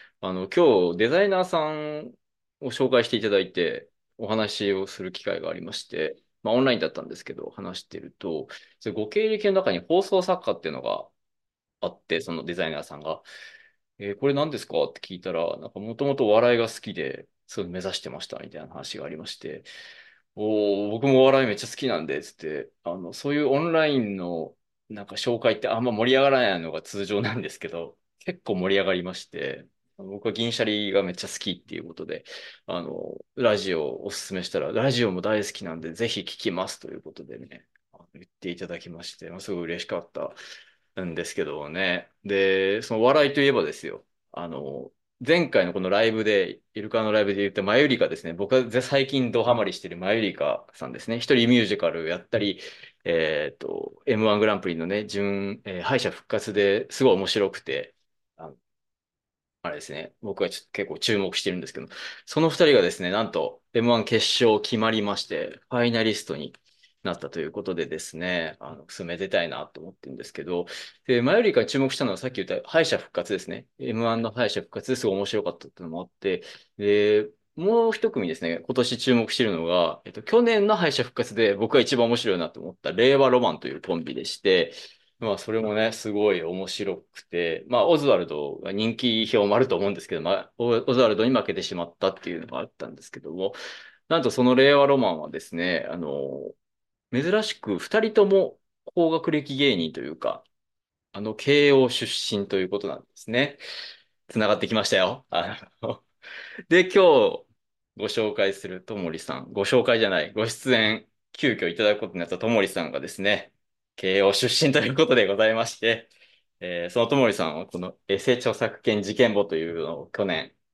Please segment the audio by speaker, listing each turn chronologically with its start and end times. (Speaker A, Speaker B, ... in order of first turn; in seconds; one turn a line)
Speaker A: 0.2-11.1
Speaker A: 11.8-13.2
Speaker A: 14.0-19.7
Speaker A: 20.4-40.4
Speaker A: 41.0-58.6
Speaker A: 59.6-93.6
Speaker A: 94.1-96.5
Speaker A: 97.1-100.5
Speaker A: 101.1-103.6
Speaker A: 104.3-106.1
Speaker A: 106.7-116.1
Speaker A: 116.6-120.6